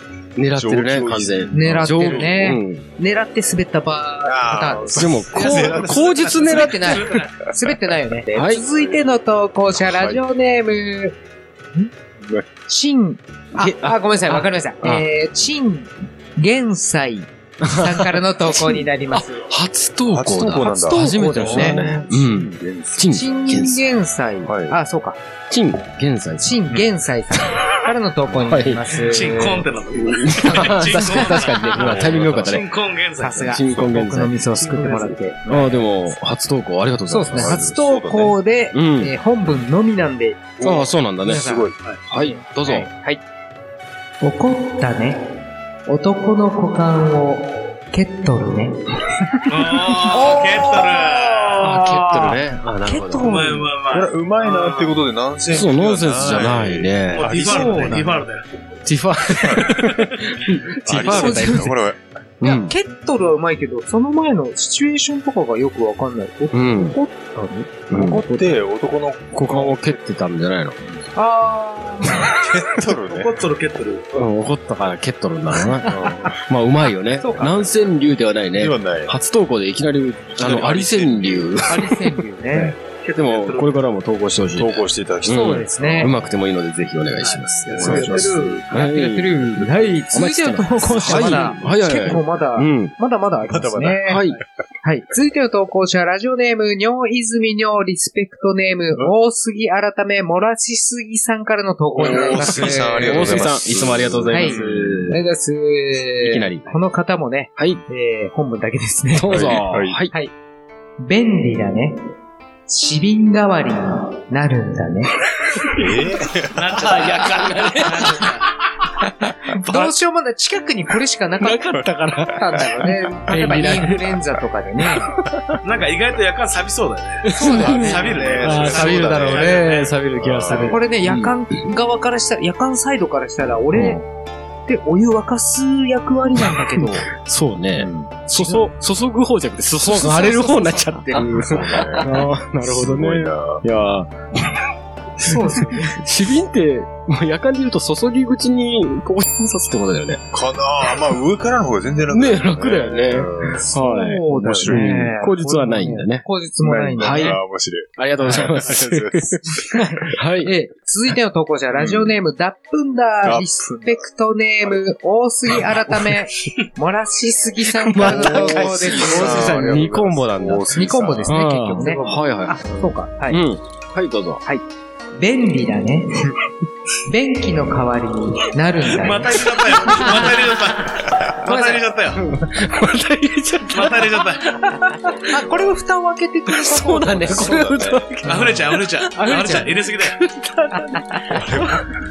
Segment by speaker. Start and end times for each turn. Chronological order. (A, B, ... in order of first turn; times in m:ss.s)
0:00.4-0:02.8 A
0:00.5-0:02.5 B
0:01.5-0:05.7 C
0:04.2-0:06.9 B
0:05.0-0:07.0 A
0:05.4-0:07.3 D
0:06.4-0:11.2 C
0:08.3-0:08.6 A
0:08.7-0:09.0 B
0:09.7-0:10.2 B
0:12.2-0:12.5 B
0:12.7-0:19.5 C
0:13.6-0:15.1 A
0:17.6-0:23.9 A
0:20.1-0:23.6 B
0:20.6-0:21.9 C
0:23.1-0:25.2 C
0:24.5-0:24.8 B
0:25.5-0:26.6 A
0:26.4-0:29.7 C
0:28.4-0:29.0 A
0:29.1-0:33.6 D
0:30.0-0:32.7 A
0:30.4-0:31.4 C
0:31.8-0:32.6 B
0:33.2-0:35.8 C
0:33.4-0:34.4 A
0:34.6-0:35.2 D
0:35.5-0:37.6 A
0:37.1-0:40.6 C
0:37.3-0:38.4 B
0:38.7-0:39.1 A
0:40.6-0:41.8 B
0:40.6-0:41.5 A
0:41.2-0:43.2 C
0:42.1-0:42.9 A
0:44.2-0:48.8 C
0:49.5-0:51.8 D
0:50.1-0:53.7 C
0:51.6-0:53.4 A
0:53.2-0:55.0 D
0:53.9-0:58.0 B
0:55.5-0:57.4 A
0:57.1-0:58.5 D
0:57.5-0:58.2 C
0:58.9-1:01.7 A
0:59.4-1:00.0 B
1:00.8-1:02.0 B
1:01.0-1:01.8 C
1:02.4-1:02.8 A
1:02.4-1:08.5 C
1:06.5-1:07.0 A
1:07.9-1:08.2 A
1:08.0-1:09.8 B
1:09.3-1:10.8 A
1:11.2-1:12.3 C
1:12.2-1:13.4 B
1:13.0-1:14.1 D
1:14.1-1:32.9 A
1:15.9-1:16.4 B
1:17.2-1:17.5 C
1:18.6-1:19.2 B
1:20.4-1:21.8 B
1:21.7-1:22.8 C
1:23.0-1:23.8 D
1:24.6-1:26.2 B
1:25.3-1:26.1 C
1:27.2-1:28.6 D
1:27.7-1:28.6 B
1:27.8-1:34.2 C
1:29.6-1:29.9 B
1:31.0-1:31.8 B
1:33.5-1:34.3 B
1:34.0-1:34.4 A
1:34.8-1:43.5 C
1:42.0-1:45.1 B
1:42.0-1:45.2 A
1:44.3-1:50.3 C
1:46.2-1:46.7 A
1:47.6-1:47.8 A
1:49.1-1:50.1 A
1:49.3-1:50.0 B
1:51.0-1:52.0 C
1:52.7-1:55.2 C
1:55.7-1:57.3 B
1:56.5-1:58.5 D
1:57.1-1:58.3 A
1:59.0-1:59.9 A
1:59.5-2:05.1 C
2:01.4-2:04.2 A
2:05.0-2:05.6 A
2:05.6-2:10.0 D
2:07.3-2:11.3 A
2:07.3-2:08.4 C
2:07.4-2:09.7 B
2:10.2-2:10.8 B
2:10.6-2:14.0 C
2:14.7-2:17.1 C
2:17.2-2:24.6 A
2:17.8-2:18.2 B
2:18.3-2:18.7 C
2:19.8-2:22.2 C
2:21.2-2:22.1 B
2:22.6-2:23.6 B
2:25.2-2:30.2 A
2:25.2-2:26.0 C
2:30.3-2:33.6 B
2:32.1-2:36.3 A
2:33.6-2:37.4 C
2:34.3-2:35.1 B
2:36.6-2:39.8 B
2:37.0-2:37.4 A
2:38.0-2:40.5 A
2:39.7-2:49.8 C
2:41.8-2:42.2 B
2:43.2-2:44.0 B
2:47.8-2:50.7 A
2:48.0-2:52.2 B
2:50.7-2:53.4 C
2:51.2-2:54.4 A
2:55.2-2:56.3 C
2:57.1-3:00.3 C
2:59.0-3:02.2 D
2:59.8-3:00.4 A
3:01.4-3:05.3 A
3:03.7-3:04.6 D
3:05.2-3:07.8 C
3:06.5-3:11.7 A
3:07.2-3:08.1 B
3:08.3-3:10.2 D
3:09.1-3:09.7 C
3:10.8-3:11.4 C
3:11.3-3:11.8 B